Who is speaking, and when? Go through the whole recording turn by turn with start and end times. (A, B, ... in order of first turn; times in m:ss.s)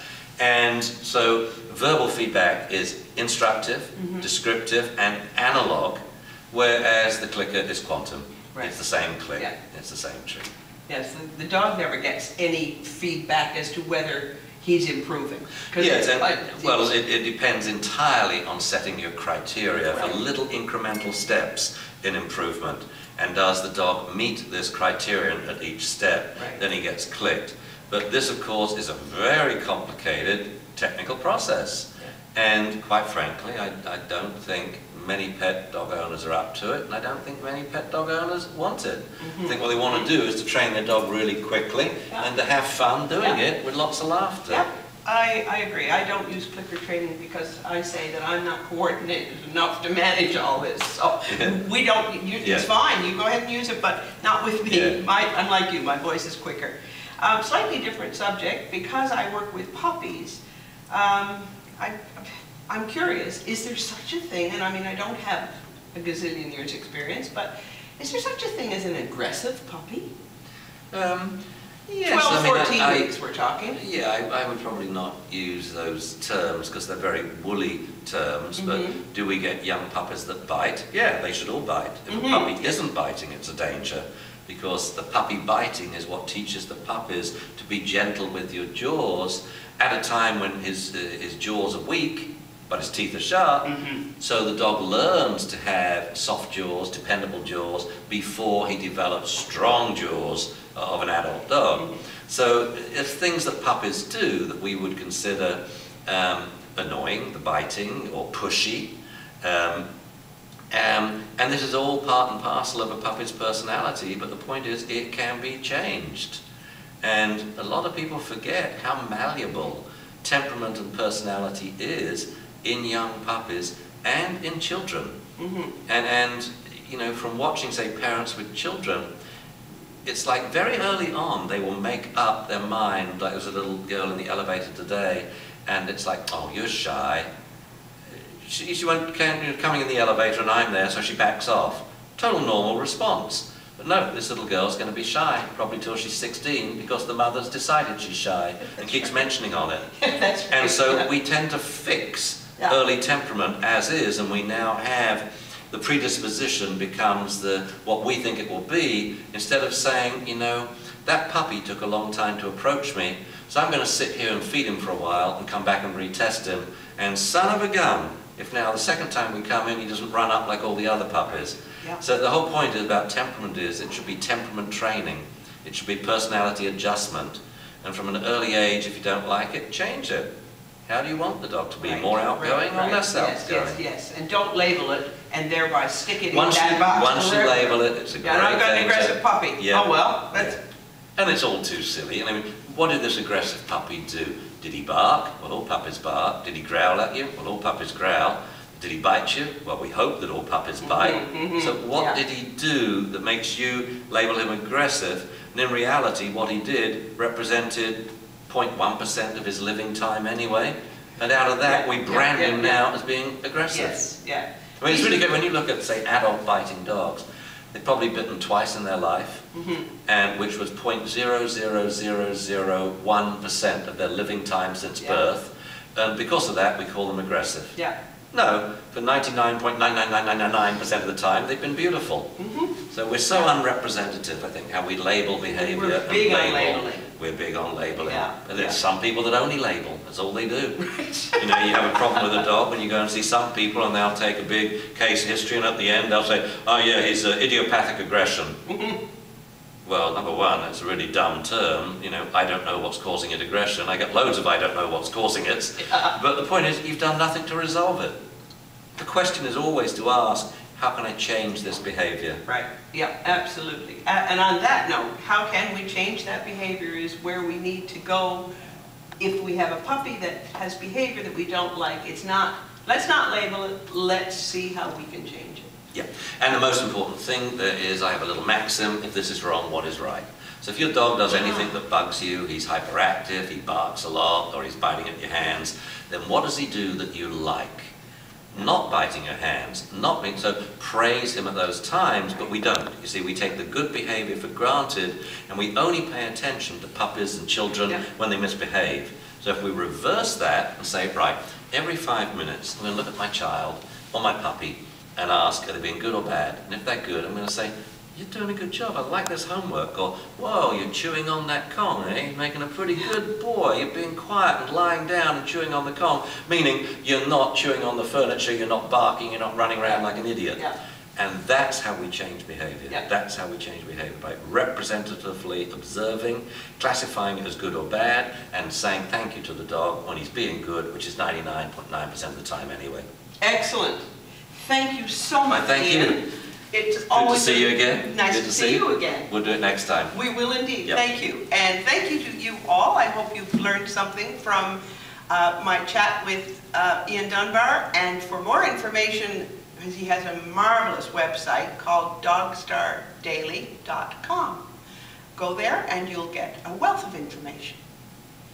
0:00.4-0:06.0 A
0:03.9-0:04.2 B
0:06.5-0:10.5 A
0:10.9-0:16.9 B
0:15.7-0:44.6 A
0:26.4-0:26.6 B
0:39.2-0:40.1 B
0:44.5-1:10.1 B
0:51.3-0:51.5 A
0:52.4-0:52.6 A
0:54.6-0:55.0 A
1:10.9-1:13.1 A
1:12.0-1:13.8 B
1:13.7-1:49.8 A
1:18.6-1:19.0 B
1:22.1-1:22.7 B
1:33.6-1:34.0 B
1:50.7-1:56.4 A
1:57.0-2:05.1 A
2:05.4-2:05.7 B
2:05.9-2:09.1 A
2:10.0-2:17.3 A
2:18.4-2:29.9 A
2:30.0-2:31.1 B
2:30.5-3:00.3 A
3:00.9-3:03.8 A
3:01.8-3:10.6 B
3:06.3-3:10.6 A
3:11.2-3:34.0 A
3:20.8-3:22.2 B
3:31.7-3:32.8 B
3:33.7-3:35.2 B
3:34.8-3:39.4 A
3:39.5-3:39.9 B
3:40.0-3:47.8 A
3:48.3-3:52.3 A
3:52.4-3:52.7 B
3:52.9-4:00.8 A
3:55.5-3:57.0 B
3:58.0-3:58.8 B
4:00.8-4:02.2 B
4:01.4-4:08.6 A
4:08.7-4:09.0 B
4:09.8-4:18.2 A
4:15.8-4:16.1 B
4:19.0-4:22.4 A
4:22.4-4:28.5 B
4:29.2-4:35.7 B
4:35.9-4:47.9 A
4:48.5-5:20.6 A
5:21.2-5:33.0 A
5:33.4-5:34.0 B
5:34.6-5:39.3 B
5:35.5-5:36.2 A
5:37.1-5:40.1 A
5:40.1-5:54.6 B
5:55.4-5:57.8 B